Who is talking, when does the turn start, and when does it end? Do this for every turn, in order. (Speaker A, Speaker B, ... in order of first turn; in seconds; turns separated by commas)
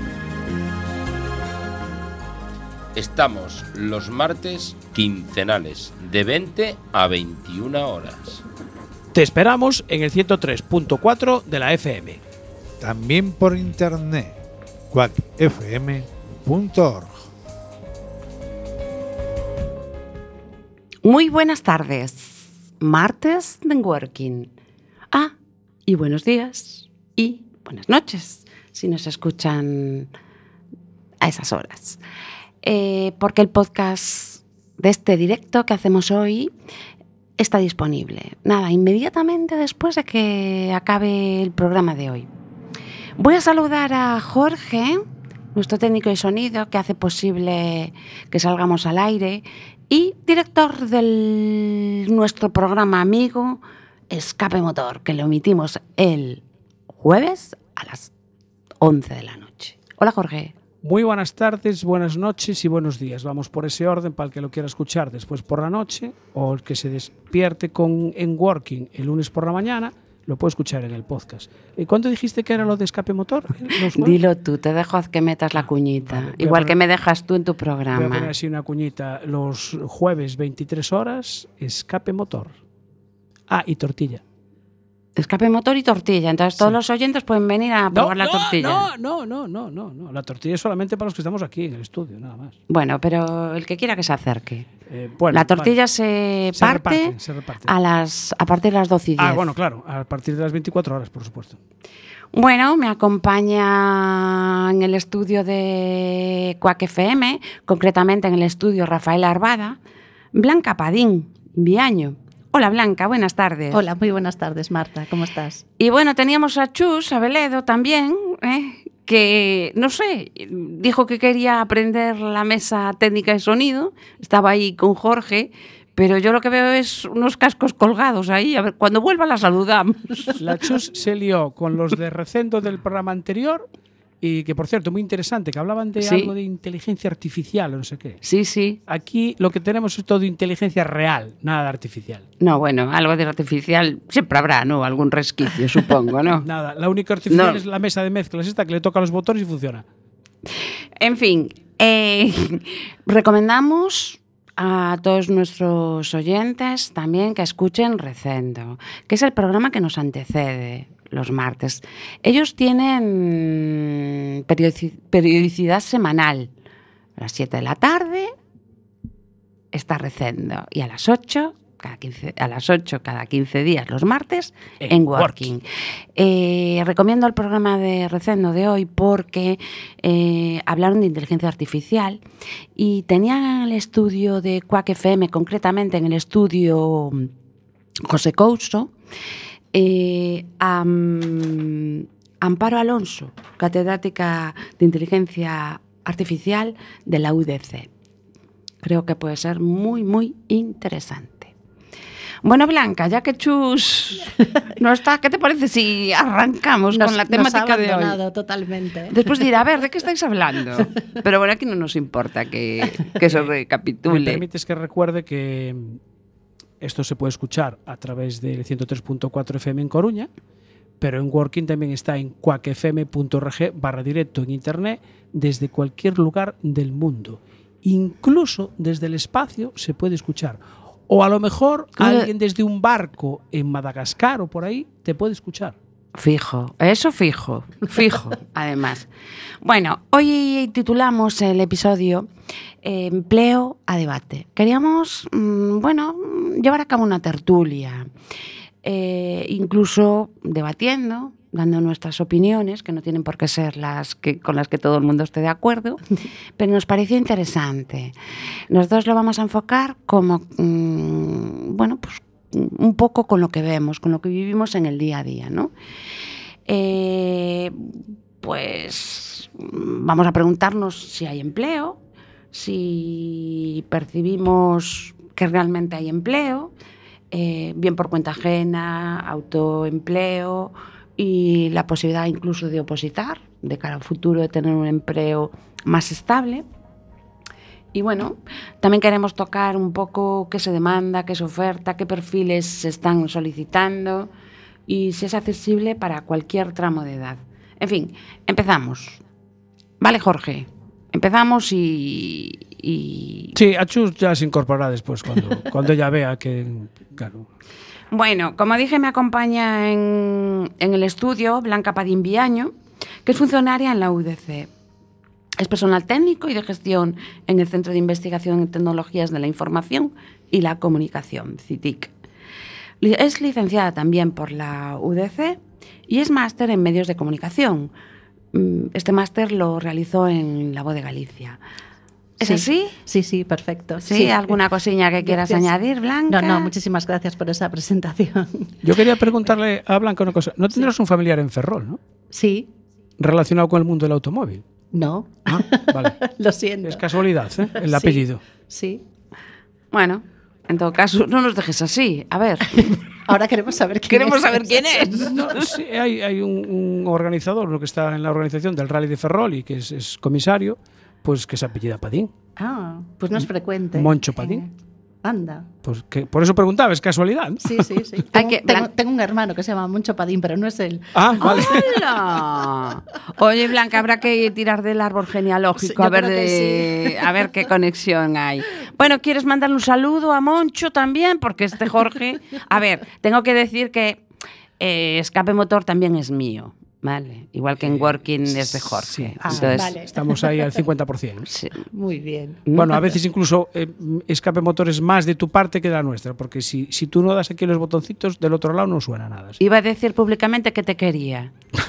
Speaker A: 3.0-8.4, Speaker B: 9.1-12.2, Speaker C: 12.8-14.4, Speaker C: 14.9-17.3, Speaker D: 21.0-24.5, Speaker D: 25.9-30.1, Speaker D: 31.2-32.0, Speaker D: 32.6-36.5, Speaker D: 37.4-42.3, Speaker D: 43.2-58.1, Speaker D: 58.8-60.5, Speaker B: 60.8-74.2, Speaker D: 73.8-78.3, Speaker B: 76.1-76.8, Speaker B: 77.9-82.5, Speaker B: 83.5-84.2, Speaker D: 85.2-88.9, Speaker B: 87.9-92.5, Speaker D: 92.7-94.7, Speaker B: 94.9-95.8, Speaker D: 95.3-97.1, Speaker B: 96.5-97.7, Speaker D: 97.7-99.5, Speaker B: 99.2-101.6, Speaker D: 102.3-109.8, Speaker D: 110.3-113.8, Speaker E: 113.7-115.7, Speaker D: 115.8-130.4, Speaker B: 130.4-133.7, Speaker B: 134.2-138.2, Speaker D: 136.0-136.3, Speaker D: 138.2-138.8, Speaker B: 138.9-142.2, Speaker D: 142.4-146.5, Speaker B: 146.4-149.8, Speaker D: 147.3-147.6, Speaker D: 150.5-166.5, Speaker D: 167.2-168.3, Speaker D: 169.7-175.6, Speaker B: 174.8-175.5, Speaker D: 176.2-182.2, Speaker D: 182.8-187.3, Speaker D: 188.0-188.9, Speaker D: 189.7-197.9, Speaker D: 198.8-201.5, Speaker D: 202.4-208.2, Speaker E: 206.9-209.5, Speaker D: 209.1-214.4, Speaker B: 213.2-213.5, Speaker B: 214.1-216.0, Speaker B: 216.8-220.3, Speaker B: 221.0-235.8, Speaker D: 232.0-232.3, Speaker D: 236.2-239.1, Speaker D: 239.6-242.3, Speaker D: 242.8-248.1, Speaker D: 248.8-256.0, Speaker D: 256.6-258.1, Speaker D: 258.7-265.7, Speaker D: 266.7-272.0, Speaker D: 272.5-276.7, Speaker D: 277.3-286.7, Speaker D: 287.9-294.3, Speaker D: 294.9-299.2, Speaker D: 300.0-303.6, Speaker B: 303.6-307.5, Speaker D: 308.1-312.7, Speaker D: 313.3-314.7, Speaker D: 315.6-322.1, Speaker D: 323.0-327.9, Speaker D: 328.5-331.6, Speaker D: 332.4-332.9, Speaker E: 332.4-334.6, Speaker D: 334.0-336.7, Speaker E: 335.2-335.7, Speaker E: 336.3-338.9, Speaker B: 338.8-342.0, Speaker E: 342.3-342.7, Speaker B: 343.2-344.6, Speaker E: 344.9-347.1, Speaker B: 345.5-346.2, Speaker B: 346.9-348.4, Speaker E: 347.7-349.0, Speaker D: 349.9-353.0, Speaker E: 352.8-355.7, Speaker D: 354.1-355.4, Speaker B: 355.2-362.3, Speaker E: 362.6-364.7, Speaker B: 363.9-364.6, Speaker E: 365.2-365.7, Speaker B: 365.9-368.2, Speaker E: 367.6-371.9, Speaker D: 368.3-368.9, Speaker B: 371.1-371.9, Speaker D: 371.4-384.2, Speaker E: 375.8-377.5, Speaker D: 384.8-389.9, Speaker B: 387.8-391.5, Speaker E: 389.4-390.6, Speaker D: 391.5-391.8, Speaker E: 391.9-393.1, Speaker B: 392.7-399.6, Speaker D: 399.6-401.5